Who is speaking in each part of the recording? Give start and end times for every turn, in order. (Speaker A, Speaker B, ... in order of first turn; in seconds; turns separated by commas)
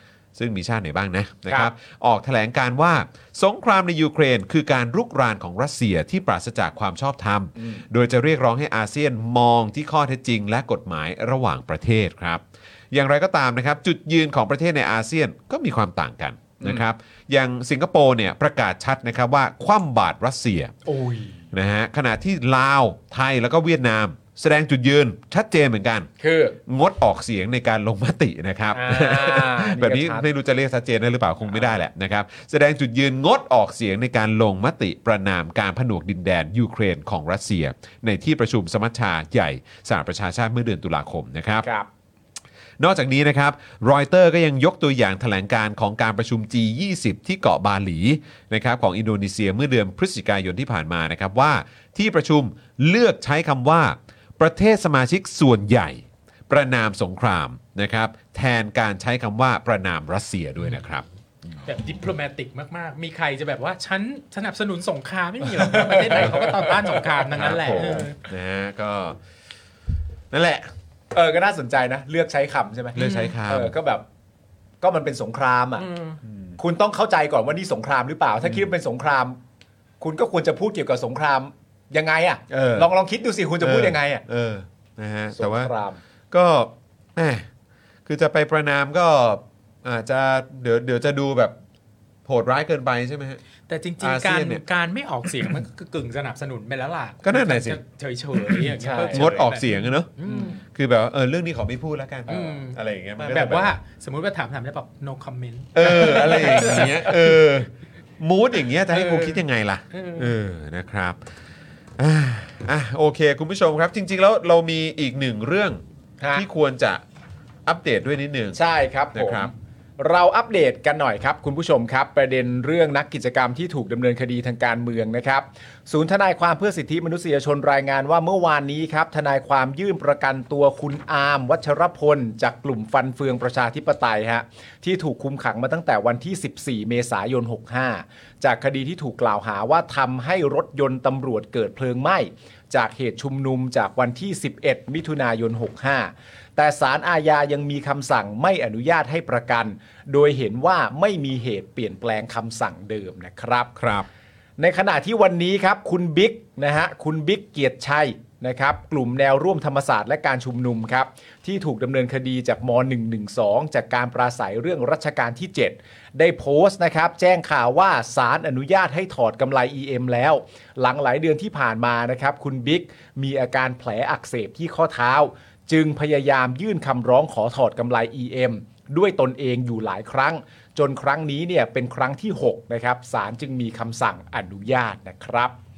Speaker A: 0.4-20.7, Speaker B: 7.6-7.8, Speaker B: 16.6-16.9, Speaker B: 20.9-21.5, Speaker A: 21.5-26.1, Speaker B: 26.2-26.6, Speaker A: 26.7-41.7, Speaker B: 28.7-30.3, Speaker B: 41.6-41.9, Speaker A: 42.8-61.6, Speaker C: 61.6-68.2, Speaker B: 65.6-67.2, Speaker A: 67.3-69.2, Speaker A: 70.3-70.7, Speaker B: 71.1-74.0, Speaker A: 73.0-73.7, Speaker C: 73.0-73.4, Speaker B: 74.8-75.9, Speaker C: 75.8-76.2, Speaker A: 76.2-76.6, Speaker B: 76.6-79.4, Speaker A: 78.4-78.7, Speaker B: 80.0-84.2, Speaker A: 82.5-82.9, Speaker A: 83.6-85.7, Speaker B: 85.3-86.0, Speaker A: 86.3-87.5, Speaker A: 88.1-91.5, Speaker A: 92.2-93.4, Speaker C: 93.7-100.6, Speaker A: 94.0-94.6, Speaker A: 95.3-95.6, Speaker A: 97.2-97.8, Speaker A: 98.4-103.8, Speaker B: 98.8-99.3, Speaker B: 100.2-100.6, Speaker B: 102.3-102.6, Speaker C: 102.3-107.1, Speaker A: 105.8-111.2, Speaker B: 105.8-107.1, Speaker C: 108.9-110.3, Speaker A: 112.0-115.8, Speaker B: 116.2-116.5, Speaker A: 116.3-117.0, Speaker A: 117.7-118.6, Speaker B: 118.5-153.7, Speaker A: 119.1-119.5, Speaker A: 153.8-154.1, Speaker B: 154.6-185.6